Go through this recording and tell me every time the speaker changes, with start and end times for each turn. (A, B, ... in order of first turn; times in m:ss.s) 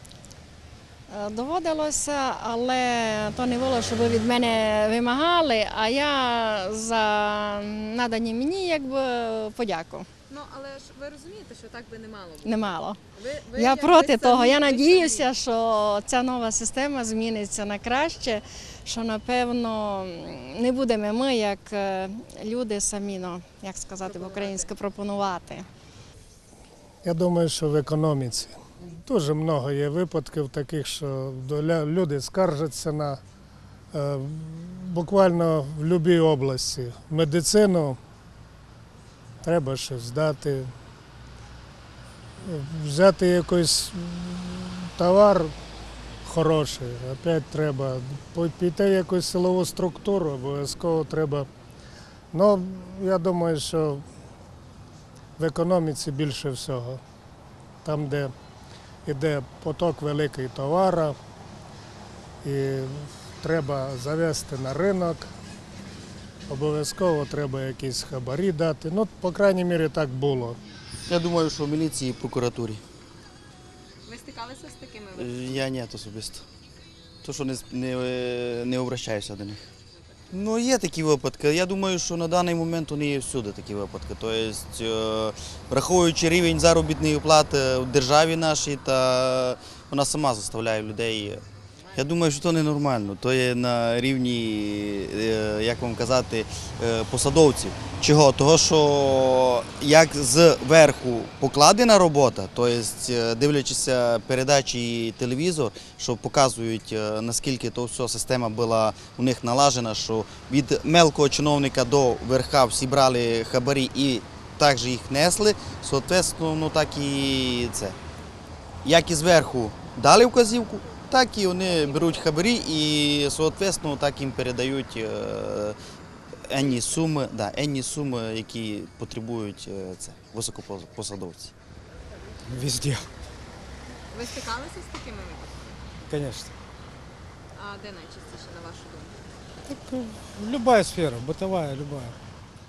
0:01.1-0:10.1 A
0:10.3-0:15.3 B
0:12.4-0:13.0 A
0:13.6-0:25.7 A
0:24.0-0:24.7 B
0:27.0-0:33.2 C
0:33.9-0:38.0 C
0:39.4-0:40.7 C
0:42.4-0:45.5 C
0:46.2-0:51.5 C
0:52.3-0:54.0 C
0:55.4-0:57.0 C
0:57.8-0:58.3 C
0:59.1-1:01.2 C
1:02.4-1:05.3 C
1:06.5-1:10.6 C
1:11.1-1:12.8 D
1:14.1-1:15.3 B
1:15.2-1:16.4 D
1:17.2-1:19.6 D
1:20.3-1:31.4 D
1:31.9-1:58.0 D
1:58.8-2:05.8 D
2:06.5-2:11.5 D
2:12.5-2:13.0 E
2:14.1-2:15.8 B
2:16.1-2:16.5 E
2:17.6-2:19.2 B
2:20.3-2:22.2 E